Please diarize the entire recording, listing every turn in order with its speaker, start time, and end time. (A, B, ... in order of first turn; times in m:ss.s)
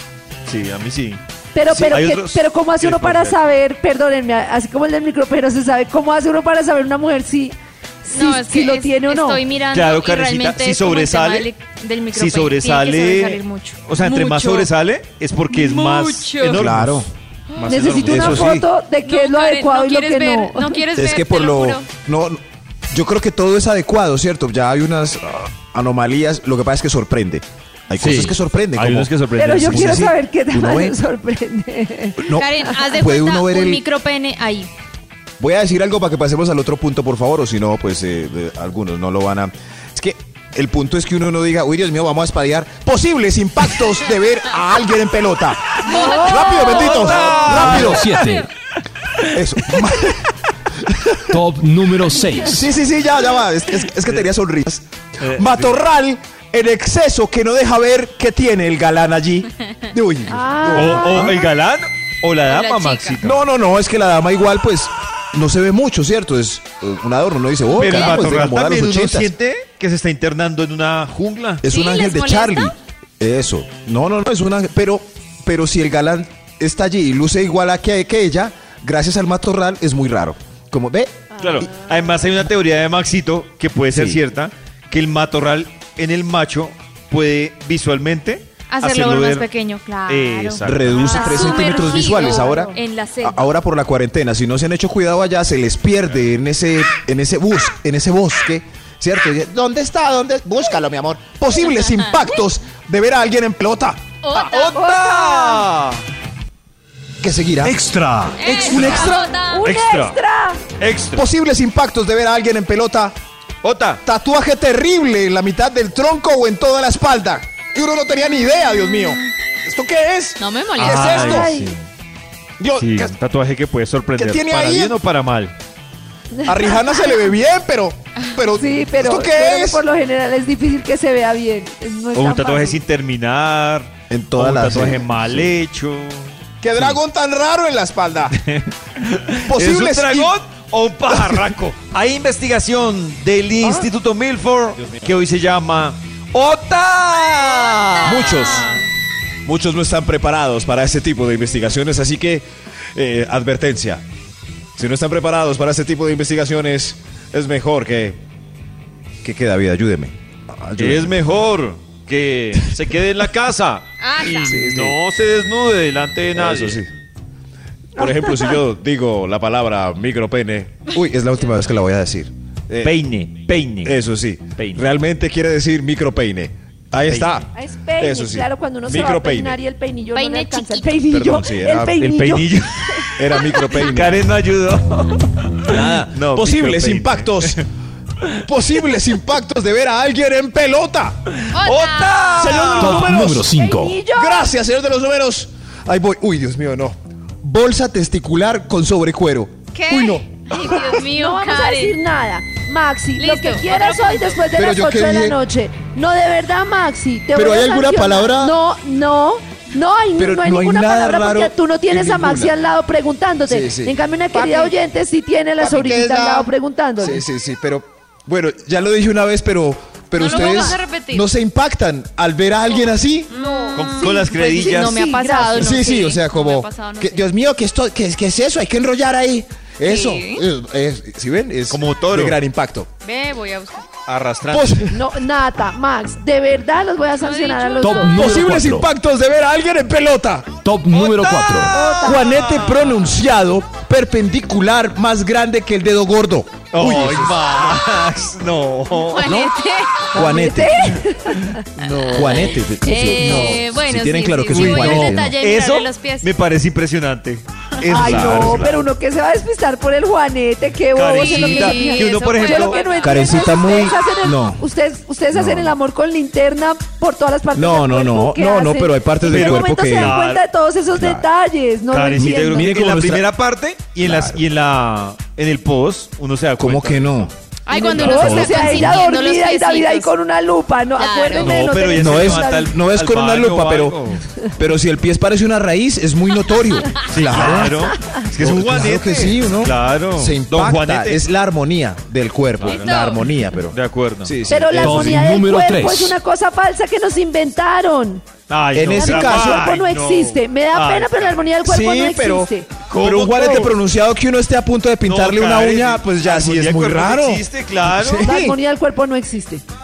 0:00.4-0:03.4 A
0:01.5-0:09.4 B
0:08.1-0:14.7 C
0:09.7-0:11.5 A
0:12.1-0:18.5 A
0:15.5-0:16.7 C
0:16.5-0:17.1 D
0:17.5-0:17.8 C
0:17.7-0:20.8 B
0:17.8-0:18.7 D
0:19.0-0:21.9 C
0:21.0-0:22.4 D
0:22.9-0:31.0 D
0:28.0-0:30.1 A
0:29.4-0:32.5 B
0:32.2-0:33.8 D
0:32.3-0:34.7 C
0:35.4-0:48.1 D
0:45.8-0:47.5 C
0:45.9-0:47.4 B
0:46.6-0:48.0 A
0:47.4-0:48.5 E
0:48.2-0:48.5 C
0:49.3-0:51.4 D
0:51.3-0:52.7 E
0:52.4-1:01.4 D
0:55.2-0:55.8 A
1:00.3-1:01.5 B
1:00.7-1:03.4 A
1:02.5-1:03.2 C
1:03.2-1:09.3 D
1:07.7-1:11.7 A
1:07.7-1:08.2 C
1:11.6-1:21.6 D
1:11.7-1:12.7 C
1:21.3-1:22.2 B
1:21.4-1:29.5 A
1:23.9-1:24.2 D
1:28.7-1:33.5 C
1:30.1-1:31.3 A
1:30.6-1:44.1 D
1:31.3-1:32.8 B
1:44.2-1:45.0 C
1:44.3-1:46.0 A
1:44.7-1:45.6 B
1:47.2-1:47.8 D
1:47.6-1:49.1 E
1:48.4-1:49.7 C
1:48.5-1:49.3 D
1:49.2-1:50.6 B
1:49.6-1:50.2 A
1:50.8-1:51.3 A
1:51.1-1:53.1 D
1:53.6-1:54.0 A
1:54.0-2:01.5 D
2:00.4-2:01.2 C
2:00.8-2:01.8 A
2:01.1-2:01.8 B
2:02.6-2:03.1 D
2:02.8-2:05.5 A
2:04.2-2:05.0 D
2:06.3-2:06.9 B
2:06.4-2:09.8 D
2:08.5-2:12.8 B
2:12.1-2:17.0 A
2:14.1-2:15.5 D
2:16.6-2:18.3 D
2:18.3-2:28.8 A
2:19.5-2:20.3 D
2:21.1-2:21.5 D
2:28.0-2:28.8 D
2:29.4-2:34.0 D
2:34.8-2:38.2 D
2:39.2-2:41.1 D
2:40.8-2:46.8 A
2:44.0-2:44.6 C
2:44.4-2:45.0 D
2:46.3-2:46.9 D
2:48.0-2:52.9 D
2:52.8-2:54.0 A
2:53.8-2:59.6 D
2:54.5-2:54.8 A
2:57.0-2:57.4 A
2:57.5-3:03.1 B
3:00.1-3:00.9 C
3:01.1-3:02.0 D
3:02.0-3:07.6 A
3:03.2-3:04.3 D
3:05.7-3:07.6 D
3:08.4-3:11.2 D
3:11.5-3:12.7 C
3:11.6-3:13.1 A
3:12.4-3:13.5 D
3:12.7-3:14.0 E
3:13.5-3:14.5 B
3:14.1-3:20.8 D
3:19.7-3:22.0 C
3:21.0-3:37.2 B
3:23.2-3:24.4 C
3:24.5-3:25.4 D
3:27.3-3:28.5 D
3:30.2-3:32.5 D
3:33.5-3:34.0 D
3:34.3-3:34.7 C
3:35.6-3:43.3 D
3:40.1-3:41.3 C
3:43.3-3:47.2 C
3:43.4-3:45.7 B
3:43.7-3:45.2 A
3:45.5-3:52.9 D
3:49.8-3:50.5 C
3:51.7-3:52.4 A
3:53.0-3:53.9 C
3:54.0-3:54.9 A
3:54.5-3:55.0 D
3:54.9-3:58.1 B
3:57.2-3:58.0 C
3:57.8-3:58.9 E
3:58.1-4:00.5 D
4:00.6-4:01.8 E
4:00.9-4:03.1 A
4:01.7-4:02.4 B
4:01.9-4:07.7 D
4:06.7-4:09.5 A
4:09.1-4:10.1 C
4:09.2-4:09.5 D
4:10.1-4:10.9 D
4:10.1-4:11.6 B
4:11.8-4:15.4 D
4:11.9-4:16.3 C
4:12.9-4:13.6 B
4:14.5-4:18.8 A
4:17.9-4:18.7 D
4:17.9-4:32.8 B
4:20.9-4:22.8 A
4:21.2-4:23.8 C
4:22.9-4:24.6 D
4:25.3-4:25.8 D
4:27.5-4:30.2 D
4:29.3-4:30.4 A
4:30.9-4:31.3 D
4:31.9-4:37.3 A
4:32.2-4:33.2 D
4:34.0-4:34.4 D
4:36.6-4:37.3 D
4:37.6-4:40.1 C
4:37.7-4:42.7 B
4:38.0-4:38.3 A
4:38.0-4:39.1 D
4:40.9-4:41.5 C
4:41.4-4:44.2 A
4:41.9-4:44.0 D
4:44.6-4:55.2 D
4:47.1-4:51.2 A
4:52.6-4:54.3 A
4:52.7-4:53.2 C
4:54.5-4:58.2 B
4:54.7-4:56.2 E
4:58.5-5:01.4 A
4:58.7-4:59.7 D
4:58.9-5:02.7 B
5:01.6-5:08.6 D
5:02.9-5:03.8 A
5:05.0-5:08.3 A
5:08.1-5:09.6 B